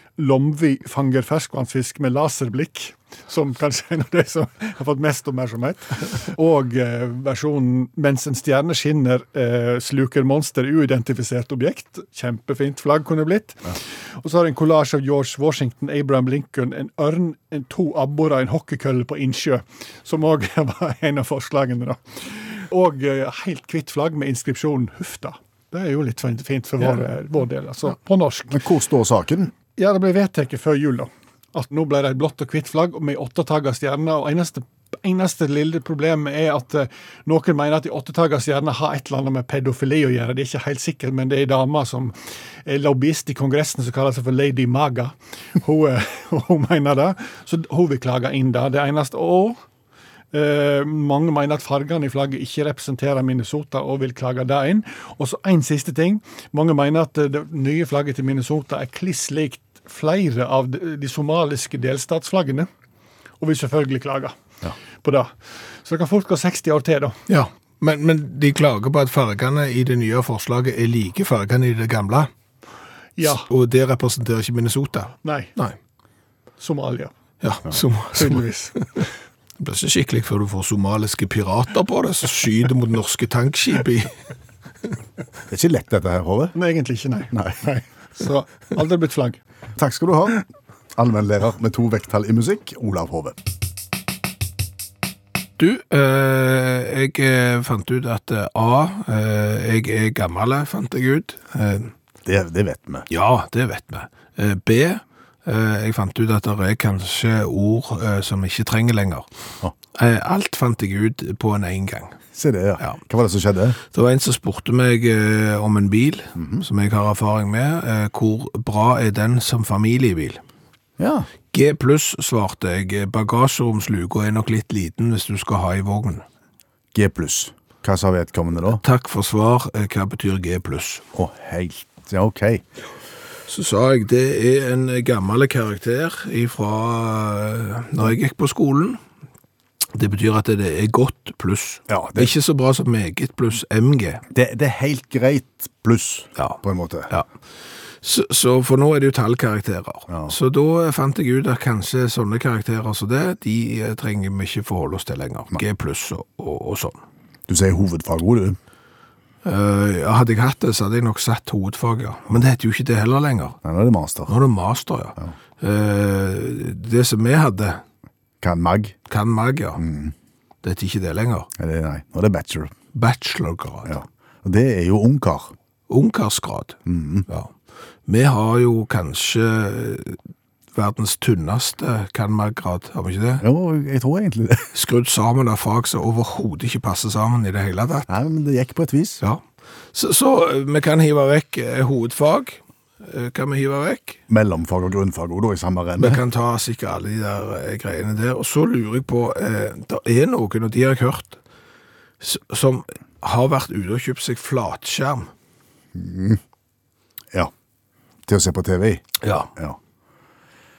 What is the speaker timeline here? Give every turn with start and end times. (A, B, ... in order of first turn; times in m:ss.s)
0:00.2-0:28.6 A
0:28.5-0:29.5 B
0:29.7-0:42.1 A
0:42.6-0:49.6 A
0:50.3-1:02.7 A
1:03.4-1:04.4 A
1:05.0-1:07.2 A
1:07.3-1:12.3 C
1:13.2-1:13.4 A
1:13.2-1:15.8 C
1:15.2-1:15.5 A
1:16.6-1:17.1 A
1:17.4-1:19.0 C
1:18.2-1:18.8 A
1:19.6-1:24.1 C
1:25.5-1:26.6 B
1:26.5-1:29.4 A
1:27.3-1:27.6 B
1:29.8-1:33.4 B
1:35.6-1:41.9 C
1:42.2-1:43.1 B
1:43.1-1:49.3 C
1:49.9-1:52.2 C
1:52.3-1:53.8 B
1:53.9-2:00.4 C
1:56.4-1:56.6 B
2:01.0-2:01.3 B
2:01.5-2:06.2 C
2:06.9-2:08.8 B
2:08.7-2:11.0 C
2:11.1-2:12.6 B
2:13.5-2:19.0 C
2:19.9-2:24.2 C
2:21.9-2:22.3 B
2:24.3-2:27.1 B
2:26.4-2:27.3 C
2:28.0-2:37.0 C
2:30.1-2:30.3 B
2:37.5-2:38.6 B
2:39.4-2:43.6 C
2:43.6-2:44.4 B
2:44.3-2:47.8 C
2:48.4-2:49.0 B
2:49.1-2:49.8 C
2:49.8-2:50.1 B
2:50.6-2:51.5 C
2:51.6-2:52.7 B
2:52.9-2:54.0 C
2:53.8-2:55.5 B
2:55.9-2:56.8 C
2:56.8-2:57.2 B
2:58.1-3:00.2 C
3:00.7-3:03.4 C
3:03.4-3:04.7 B
3:04.7-3:08.1 C
3:08.1-3:09.2 B
3:09.9-3:14.2 C
3:14.3-3:16.2 B
3:16.0-3:21.4 C
3:22.2-3:25.3 C
3:25.9-3:26.4 B
3:28.3-3:29.8 B
3:29.2-3:29.5 C